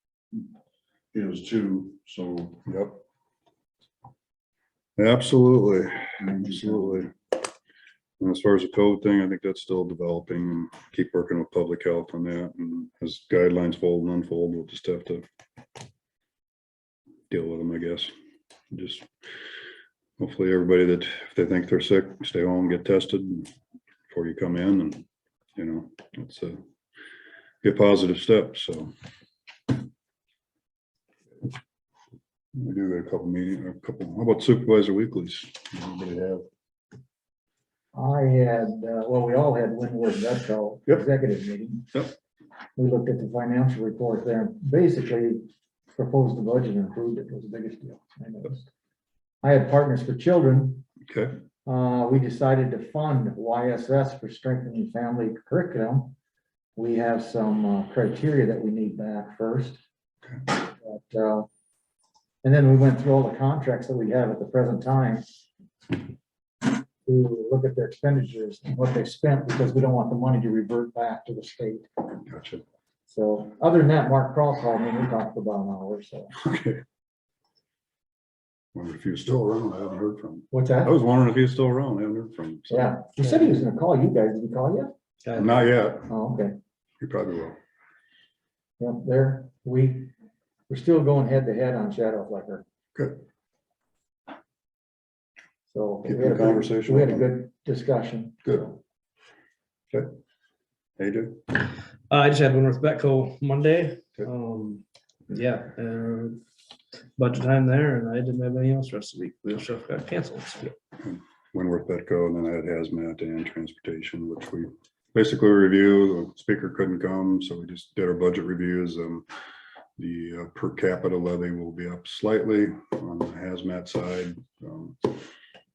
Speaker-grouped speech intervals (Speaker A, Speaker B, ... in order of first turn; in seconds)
Speaker A: 1.1-2.6, 6.2-7.0
Speaker B: 2.7-3.0, 5.0-7.1, 8.2-15.2, 17.3-18.1, 18.7-19.1, 20.2-23.5, 24.1-25.1, 25.6-26.6, 27.6-28.9, 32.6-36.5, 51.1-51.4, 72.3-72.6, 76.4-76.8, 78.7-82.9, 85.4-86.1, 87.0-87.6, 96.1-97.3, 101.0-101.5, 110.9-119.3, 120.0-125.2
Speaker C: 37.9-41.9, 42.8-48.7, 49.4-50.9, 51.6-56.1, 56.8-59.8, 60.5-61.5, 62.4-65.3, 66.7-71.9, 73.1-76.3, 80.5-80.9, 82.7-84.9, 86.1-86.5, 88.8-90.1, 90.7-92.6, 95.7-98.8
Speaker D: 85.2-85.6, 102.1-106.4, 107.2-110.7